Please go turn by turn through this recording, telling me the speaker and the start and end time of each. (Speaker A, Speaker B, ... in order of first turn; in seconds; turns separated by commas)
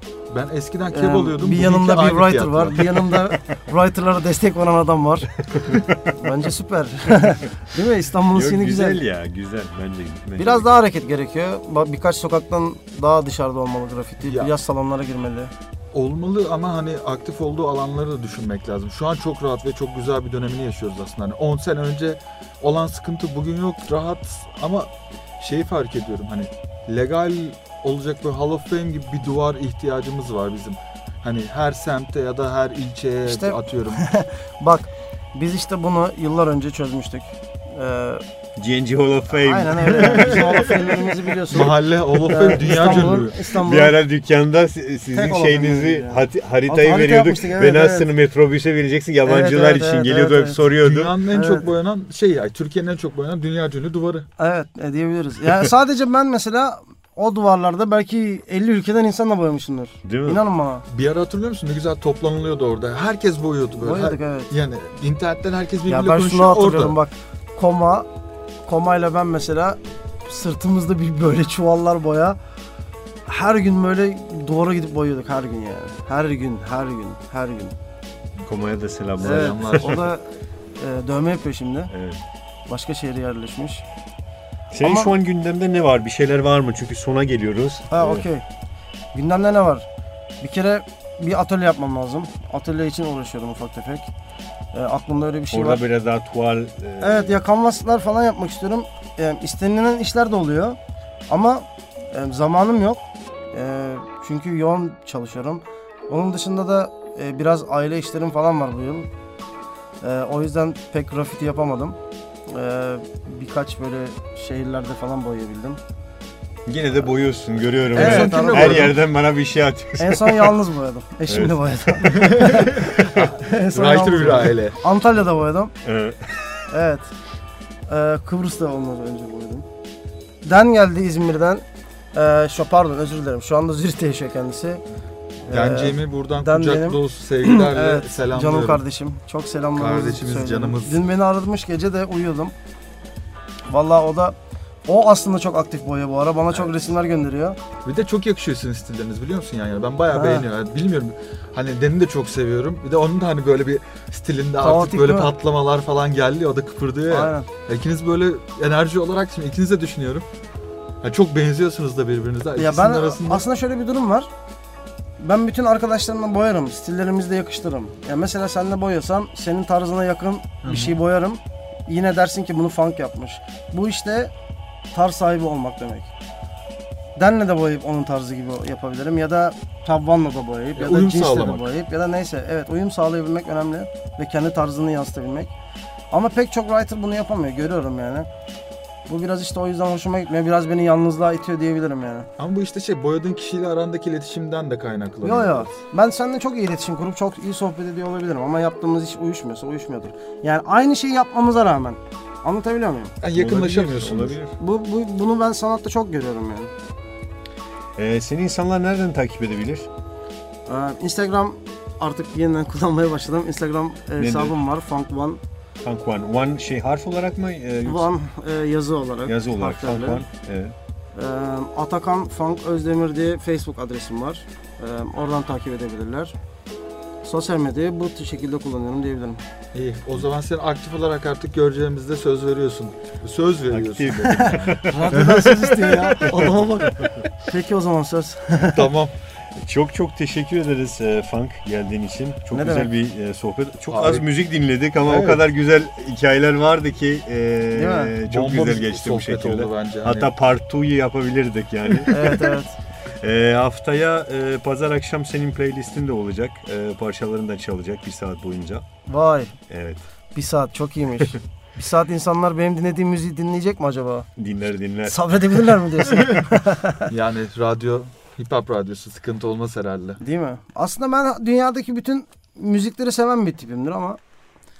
Speaker A: 0.3-3.2, Speaker B: 0.9-9.0, Speaker C: 5.5-6.2, Speaker C: 8.3-10.8, Speaker B: 10.4-15.5, Speaker A: 14.2-14.5, Speaker A: 15.9-34.0, Speaker B: 33.3-38.2, Speaker C: 38.6-41.1, Speaker B: 39.3-44.0, Speaker A: 41.5-43.4, Speaker C: 42.3-51.1, Speaker B: 45.1-48.1, Speaker B: 49.2-50.6, Speaker A: 50.8-54.2, Speaker B: 51.3-51.7, Speaker B: 54.4-60.8, Speaker C: 60.0-60.4, Speaker A: 60.9-67.0, Speaker B: 63.8-64.5, Speaker B: 65.9-68.1, Speaker B: 68.7-72.4, Speaker B: 73.3-77.7, Speaker C: 78.4-80.0, Speaker B: 79.2-81.9, Speaker A: 79.2-80.0, Speaker C: 81.9-82.2, Speaker B: 82.7-83.8, Speaker C: 84.7-88.3, Speaker B: 84.8-85.1, Speaker B: 87.9-88.4, Speaker B: 89.1-89.9, Speaker B: 90.4-94.1, Speaker B: 94.7-95.8, Speaker C: 95.5-97.4, Speaker B: 97.0-100.8, Speaker B: 101.3-109.1, Speaker B: 110.0-112.0, Speaker B: 112.5-115.8, Speaker C: 116.7-120.5, Speaker B: 117.9-119.0, Speaker A: 117.9-119.0, Speaker B: 120.0-125.7, Speaker C: 121.3-121.6, Speaker A: 122.0-124.8, Speaker C: 123.0-123.2, Speaker C: 125.8-126.7, Speaker B: 126.7-127.1, Speaker B: 127.9-129.6, Speaker B: 130.4-134.8, Speaker B: 135.4-142.5, Speaker A: 135.5-138.8, Speaker A: 139.7-141.0, Speaker B: 143.7-144.3, Speaker B: 144.9-147.6, Speaker A: 147.8-160.3, Speaker B: 150.1-150.4, Speaker B: 154.6-155.3, Speaker B: 157.1-157.5, Speaker A: 161.0-163.5, Speaker B: 162.6-164.3, Speaker B: 165.2-174.3, Speaker A: 170.6-171.0, Speaker B: 174.9-176.1, Speaker B: 177.2-185.5, Speaker A: 180.8-181.7, Speaker B: 186.1-188.3, Speaker B: 189.1-192.3, Speaker A: 192.4-195.7, Speaker B: 195.2-203.1, Speaker A: 203.2-204.3, Speaker C: 203.3-204.5, Speaker B: 204.6-206.7, Speaker C: 208.0-209.9, Speaker B: 210.7-215.4, Speaker C: 214.2-214.6, Speaker C: 215.8-218.1, Speaker B: 217.8-220.2, Speaker C: 219.2-220.7, Speaker B: 221.1-226.3, Speaker B: 227.2-229.4, Speaker A: 229.7-236.5, Speaker C: 233.7-237.2, Speaker B: 234.3-238.9, Speaker A: 238.7-239.1, Speaker C: 239.6-252.5, Speaker B: 242.5-242.9, Speaker A: 243.9-244.2, Speaker A: 245.0-245.4, Speaker B: 247.7-248.1, Speaker A: 248.2-250.3, Speaker B: 252.1-252.8, Speaker C: 253.2-258.8, Speaker B: 259.1-259.5, Speaker C: 259.7-260.0, Speaker B: 260.3-264.3, Speaker C: 264.4-265.6, Speaker B: 265.1-267.1, Speaker A: 267.1-270.2, Speaker B: 270.2-274.2